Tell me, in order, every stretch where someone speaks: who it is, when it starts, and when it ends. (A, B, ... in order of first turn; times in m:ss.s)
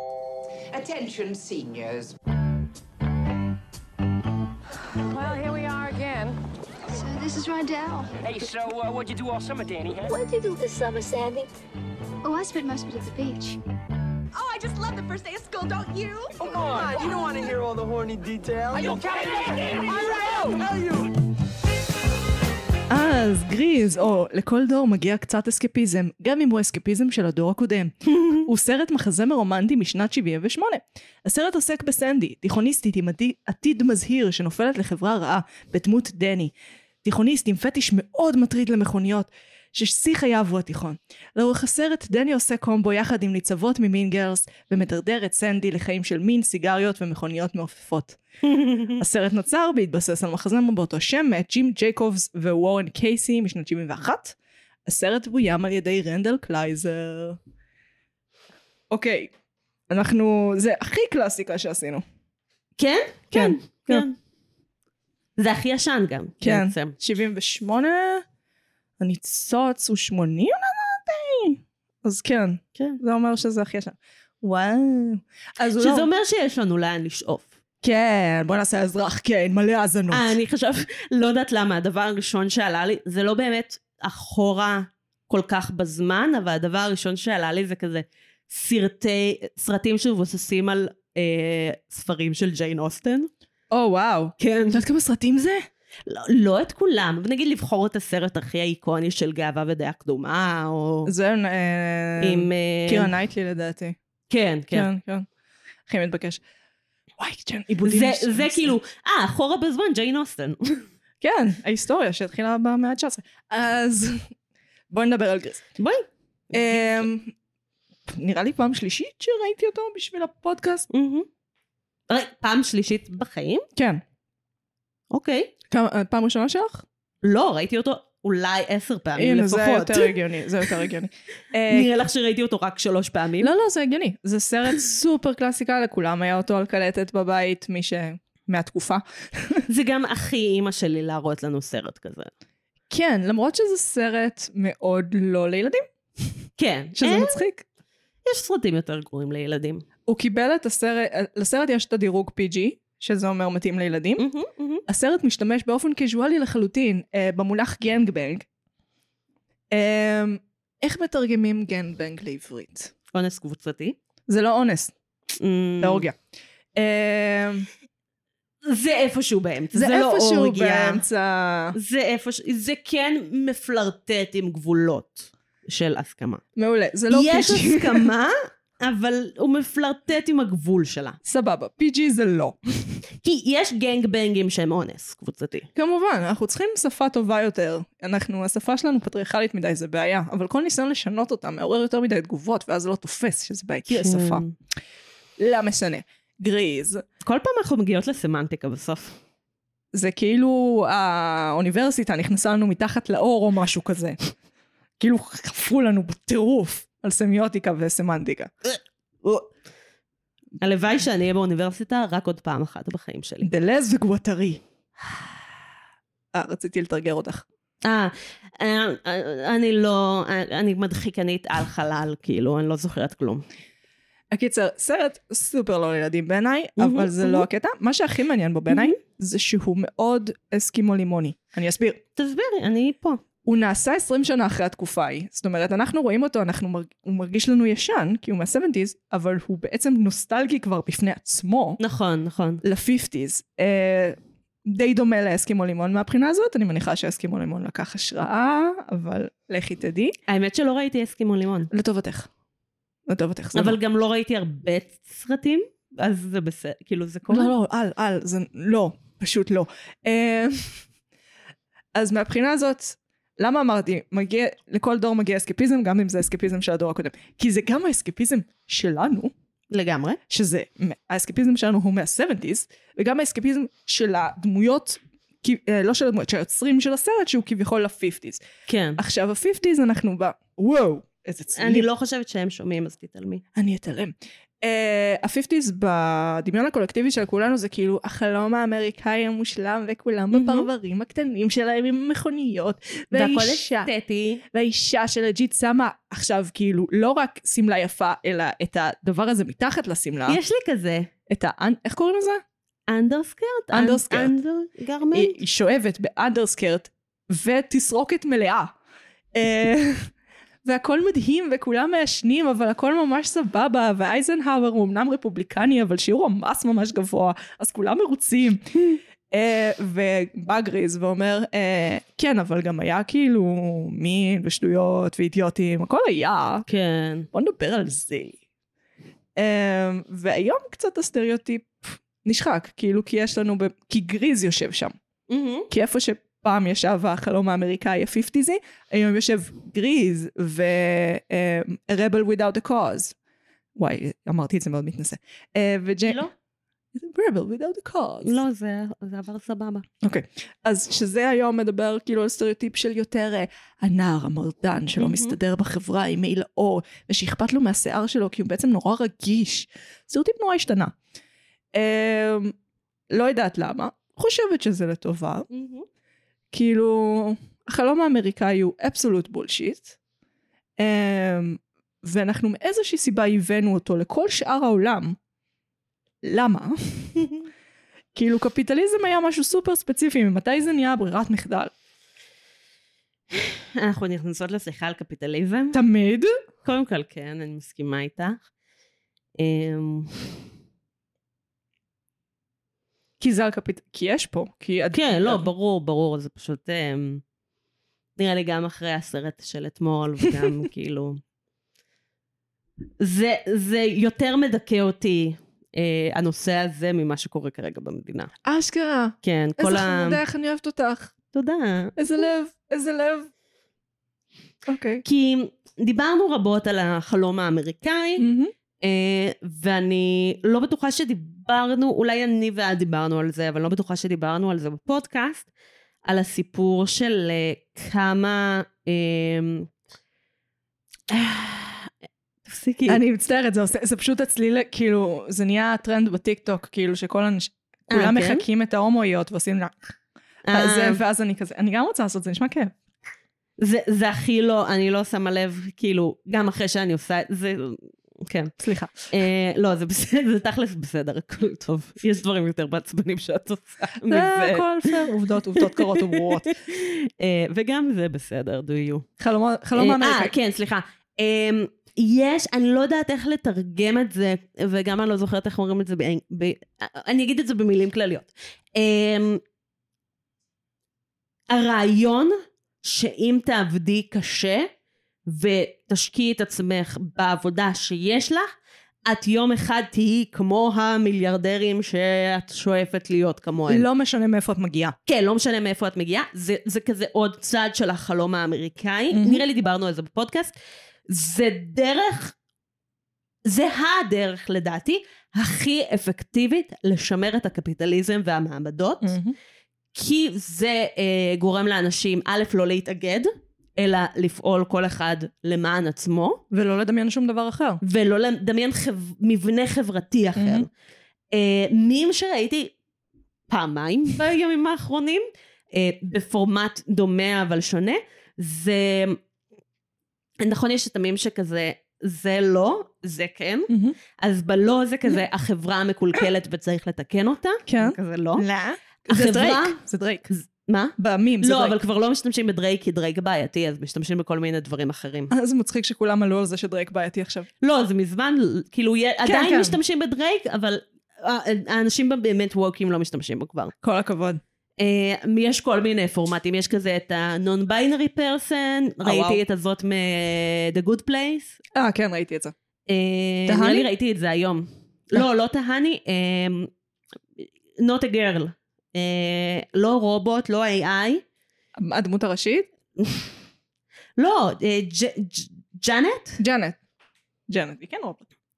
0:00.7-0:02.2 A
0:05.2-0:06.3 B
0:06.9-0:08.1 C
0:07.2-0:08.1 B
0:08.4-0:10.0 A
0:10.1-0:11.2 B
0:10.1-0:11.5 C
0:12.2-0:13.6 C
0:14.3-0:17.1 B
0:16.4-0:21.1 A
0:18.7-0:20.4 B
0:22.9-0:36.5 D
0:28.2-0:28.5 E
0:37.0-0:48.2 D
0:48.4-0:49.0 E
0:49.0-0:57.4 D
0:58.9-0:59.3 D
0:59.9-1:02.0 D
1:02.8-1:04.2 E
1:03.3-1:04.1 D
1:05.4-1:07.0 E
1:06.4-1:08.2 D
1:09.0-1:16.1 D
1:15.8-1:17.5 E
1:17.8-1:20.3 D
1:20.1-1:33.3 E
1:33.7-1:35.6 D
1:34.4-1:34.8 E
1:36.1-1:41.1 E
1:41.1-1:44.0 D
1:42.2-1:43.1 E
1:44.3-1:44.9 E
1:44.7-1:45.3 D
1:45.9-1:46.4 D
1:47.2-1:48.8 D
1:47.8-1:50.9 E
1:51.2-1:54.3 D
1:54.9-1:55.6 D
1:55.8-1:56.1 E
1:56.5-1:57.3 D
1:58.1-2:00.9 D
2:00.9-2:01.3 E
2:02.1-2:03.7 E
2:03.8-2:04.0 D
2:05.1-2:05.5 E
2:05.7-2:06.8 D
2:07.2-2:10.2 E
2:09.2-2:11.9 D
2:11.7-2:13.5 E
2:13.4-2:19.7 D
2:19.7-2:22.3 E
2:22.9-2:26.3 D
2:26.6-2:27.4 E
2:27.0-2:27.6 D
2:28.2-2:29.8 E
2:30.1-2:34.3 D
2:34.2-2:34.8 E
2:34.9-2:38.4 D
2:39.7-2:42.9 D
2:43.1-2:44.0 E
2:44.3-2:44.9 D
2:45.4-2:46.1 E
2:45.8-2:46.2 D
2:46.8-2:47.7 D
2:48.6-2:51.0 E
2:49.7-2:51.8 D
2:51.7-2:56.4 E
2:56.6-2:58.1 D
2:57.1-3:01.2 E
3:01.2-3:03.0 D
3:03.2-3:05.7 E
3:05.8-3:14.4 D
3:13.9-3:14.5 E
3:15.4-3:17.0 D
3:17.2-3:19.2 E
3:19.9-3:24.3 D
3:25.0-3:28.5 D
3:30.6-3:33.5 E
3:33.4-3:34.6 D
3:36.3-3:37.4 D
3:37.8-3:43.4 E
3:44.3-3:52.0 D
3:46.8-3:47.4 E
3:48.7-3:49.0 E
3:52.2-3:53.2 E
3:53.4-4:01.8 D
4:01.8-4:02.6 E
4:02.6-4:10.2 D
4:10.3-4:11.7 E
4:11.7-4:12.3 D
4:13.1-4:13.8 D
4:13.5-4:17.5 E
4:17.3-4:20.8 D
4:22.0-4:29.3 D
4:29.7-4:30.2 E
4:30.3-4:38.4 D
4:38.7-4:39.0 E
4:39.0-4:41.9 D
4:41.5-4:43.4 E
4:43.6-4:53.9 D
4:50.3-4:50.7 E
4:53.1-4:54.4 E
4:54.5-5:00.4 D
5:00.3-5:01.1 E
5:01.3-5:02.4 D
5:02.9-5:05.4 E
5:03.7-5:04.3 D
5:05.1-5:08.8 D
5:09.3-5:10.1 D
5:10.6-5:18.7 D
5:19.3-5:26.7 D
5:26.7-5:27.3 E
5:27.3-5:28.4 D
5:29.4-5:34.9 D
5:35.3-5:35.7 E
5:35.7-5:43.2 D
5:43.8-5:46.3 D
5:46.9-5:48.4 D
5:48.2-5:49.9 E
5:50.0-6:00.9 D
5:55.0-5:55.4 E
6:01.7-6:02.5 D
6:03.1-6:05.5 D
6:05.5-6:05.9 E
6:06.5-6:10.0 D
6:10.8-6:15.2 D
6:16.2-6:17.2 D
6:18.2-6:21.7 D
6:23.3-6:25.8 E
6:25.7-6:26.3 D
6:26.6-6:28.4 E
6:29.4-6:30.3 E
6:33.2-6:35.4 D
6:34.9-6:37.2 E
6:38.2-6:41.2 E
6:43.0-6:48.3 E
6:48.4-6:51.1 D
6:49.2-6:50.2 E
6:51.3-6:52.0 E
6:52.0-6:53.3 D
6:54.7-6:55.0 D
6:55.0-6:58.3 E
6:58.2-6:58.5 D
6:58.8-7:05.5 E
7:06.1-7:09.7 E
7:11.1-7:11.9 E
7:12.5-7:13.0 E
7:12.9-7:19.9 D
7:17.9-7:18.4 E
7:20.4-7:21.0 E
7:20.5-7:22.7 D
7:23.6-7:28.5 E
7:28.6-7:29.1 D
7:29.1-7:34.9 E
7:34.1-7:36.5 D
7:35.6-7:39.1 E
7:39.2-7:40.3 D
7:39.8-7:49.4 E
7:51.5-7:54.7 E
7:55.3-7:58.5 E
7:59.1-8:03.8 E
8:03.7-8:05.0 D
8:05.1-8:10.5 E
8:09.1-8:09.4 D
8:11.1-8:12.4 E
8:13.5-8:19.2 E
8:19.0-8:19.4 D
8:19.9-8:26.4 E
8:26.5-8:27.8 D
8:27.8-8:30.7 E
8:30.4-8:30.7 D
8:31.3-8:32.7 E
8:33.5-8:39.2 E
8:40.4-8:48.4 E
8:43.7-8:44.0 D
8:47.7-8:50.3 D
8:49.1-8:55.3 E
8:51.0-8:51.8 D
8:55.3-8:57.5 D
8:57.6-9:03.7 E
8:59.2-8:59.8 D
9:03.8-9:04.4 D
9:04.8-9:11.6 E
9:09.0-9:09.4 D
9:11.7-9:12.5 D
9:12.9-9:16.7 E
9:13.5-9:13.9 D
9:17.4-9:21.2 E
9:21.8-9:22.7 D
9:24.2-9:26.4 E
9:26.4-9:26.8 D
9:27.5-9:28.2 D